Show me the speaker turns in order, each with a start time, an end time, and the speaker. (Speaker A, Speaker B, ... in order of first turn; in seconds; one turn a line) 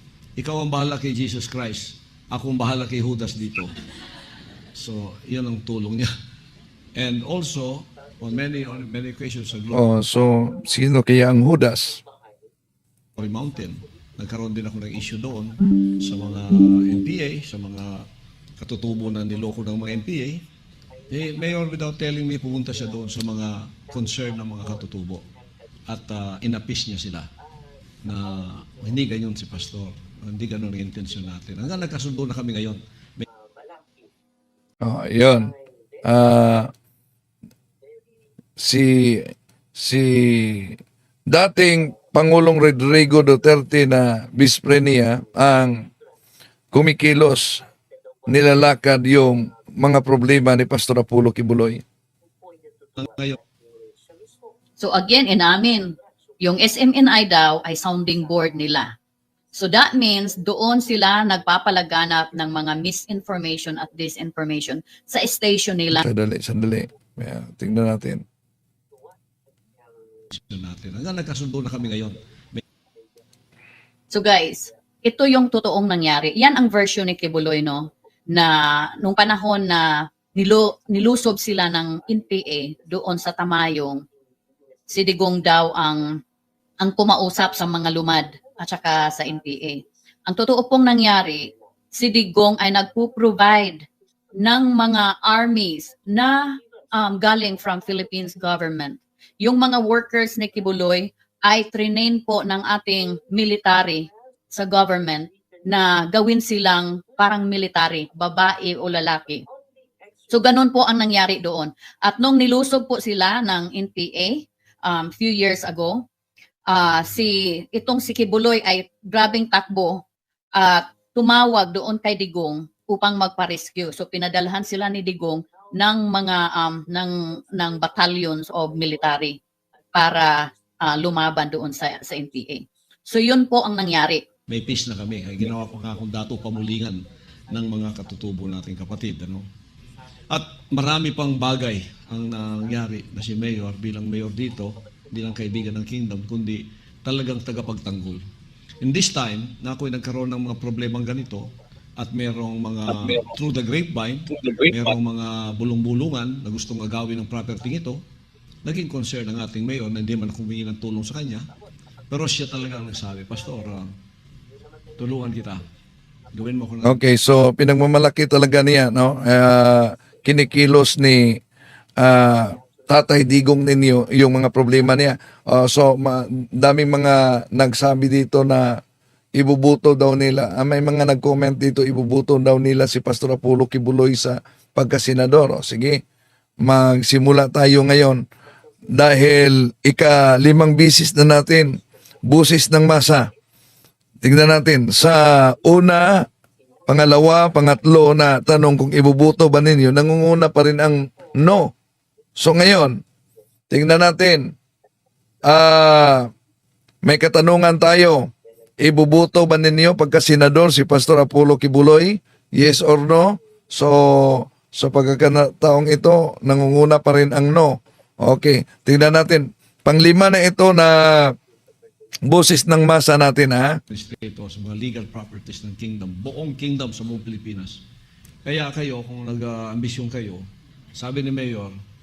Speaker A: 0.4-3.7
Speaker A: 4.8-6.1
Speaker A: 7.0-9.8
Speaker B: 9.7-12.0
Speaker A: 13.2-18.1
Speaker A: 18.6-20.4
Speaker A: 21.1-25.2
Speaker A: 25.9-27.3
Speaker A: 28.0-33.2
Speaker B: 34.8-35.5
Speaker B: 36.0-36.7
Speaker B: 38.6-45.9
Speaker B: 46.7-47.6
Speaker B: 48.3-51.8
Speaker A: 53.0-53.4
Speaker C: 54.8-58.9
Speaker C: 59.5-66.0
Speaker B: 65.9-68.2
Speaker A: 70.3-72.6
Speaker C: 74.1-84.0
Speaker C: 84.9-86.0
Speaker C: 86.8-93.8
Speaker C: 94.4-109.4
Speaker C: 110.3-116.0
Speaker C: 116.7-120.0
Speaker C: 120.6-129.4
Speaker C: 129.9-134.2
Speaker A: 134.5-139.4
Speaker A: 140.3-148.2
Speaker A: 148.8-158.0
Speaker A: 158.7-161.5
Speaker A: 162.1-163.9
Speaker A: 165.0-165.6
Speaker A: 166.3-167.0
Speaker B: 166.8-171.4
Speaker B: 172.0-178.8
Speaker B: 179.3-186.0
Speaker B: 186.6-188.2
Speaker B: 188.9-193.3
Speaker B: 194.2-196.3
Speaker B: 196.9-201.7
Speaker B: 202.4-203.0
Speaker B: 203.7-204.5
Speaker B: 205.5-206.3
Speaker B: 207.0-221.3
Speaker B: 222.2-223.8
Speaker A: 223.9-227.8
Speaker A: 228.4-231.7